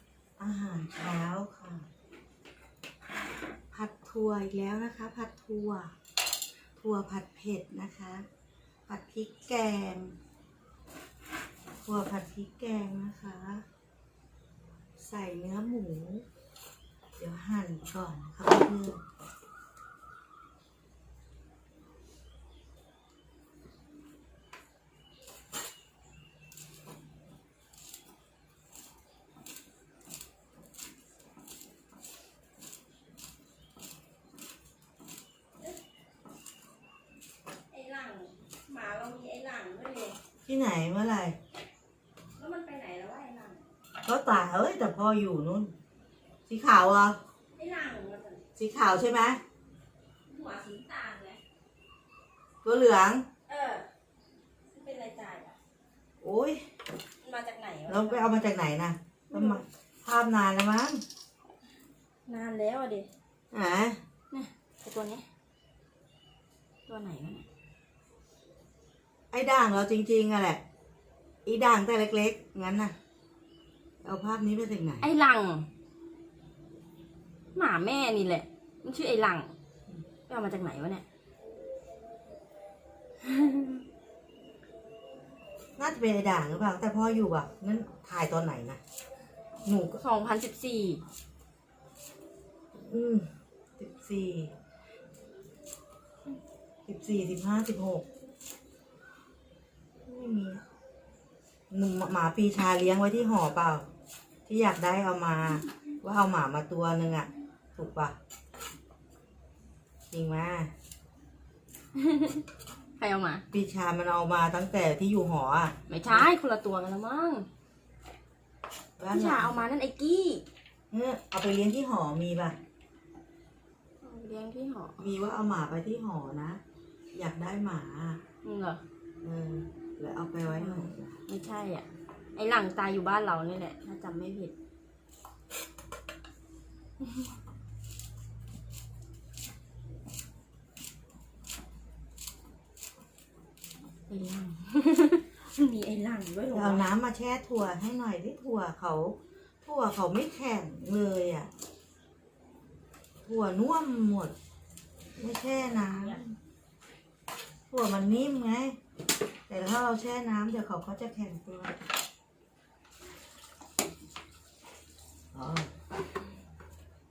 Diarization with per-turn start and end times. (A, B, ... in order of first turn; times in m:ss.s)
0:00.4-0:01.9 A
0:03.7-0:05.9 A
0:06.8-0:08.2 A
0:08.9-0:10.2 A
0:11.8-0:13.6 A
0:15.0-0:16.2 A
0:17.2-0:19.0 A
0:37.7-0:40.2 B
0:40.4-0:41.4 A
0:42.4-0:43.6 B
0:44.0-0:45.7 A
0:46.5-0:47.2 A
0:47.6-0:48.4 B
0:48.6-0:49.4 A
0:50.3-0:51.4 B
0:52.6-0:53.2 A
0:53.5-0:53.9 B
0:54.7-0:55.6 B
0:56.2-0:56.6 A
0:57.2-0:58.3 B
0:57.9-1:01.0 A
0:59.3-0:59.6 B
1:02.2-1:03.1 B
1:03.5-1:04.0 A
1:04.3-1:05.2 B
1:06.9-1:07.4 B
1:09.3-1:10.6 A
1:11.4-1:12.9 A
1:14.0-1:15.1 A
1:15.0-1:15.7 B
1:17.5-1:19.5 B
1:20.3-1:21.0 B
1:23.2-1:23.8 B
1:25.8-1:28.8 A
1:29.6-1:30.0 A
1:30.0-1:31.0 B
1:32.7-1:34.5 A
1:36.8-1:38.0 A
1:40.0-1:40.6 A
1:41.7-1:43.9 A
1:44.5-1:48.2 A
1:50.1-1:50.7 A
1:51.9-1:52.4 B
1:53.0-1:53.4 B
1:53.5-1:56.3 A
1:55.9-1:57.5 B
1:59.0-1:59.6 A
1:59.0-2:00.4 B
2:00.9-2:02.6 A
2:04.0-2:05.0 B
2:05.0-2:06.6 A
2:07.1-2:08.2 A
2:08.4-2:08.8 B
2:09.2-2:11.2 A
2:10.6-2:14.5 B
2:17.0-2:17.3 B
2:24.1-2:26.8 B
2:26.5-2:31.5 A
2:33.2-2:34.3 A
2:35.2-2:36.3 A
2:35.8-2:36.2 B
2:37.7-2:38.8 A
2:39.5-2:41.8 A
2:45.3-2:45.7 A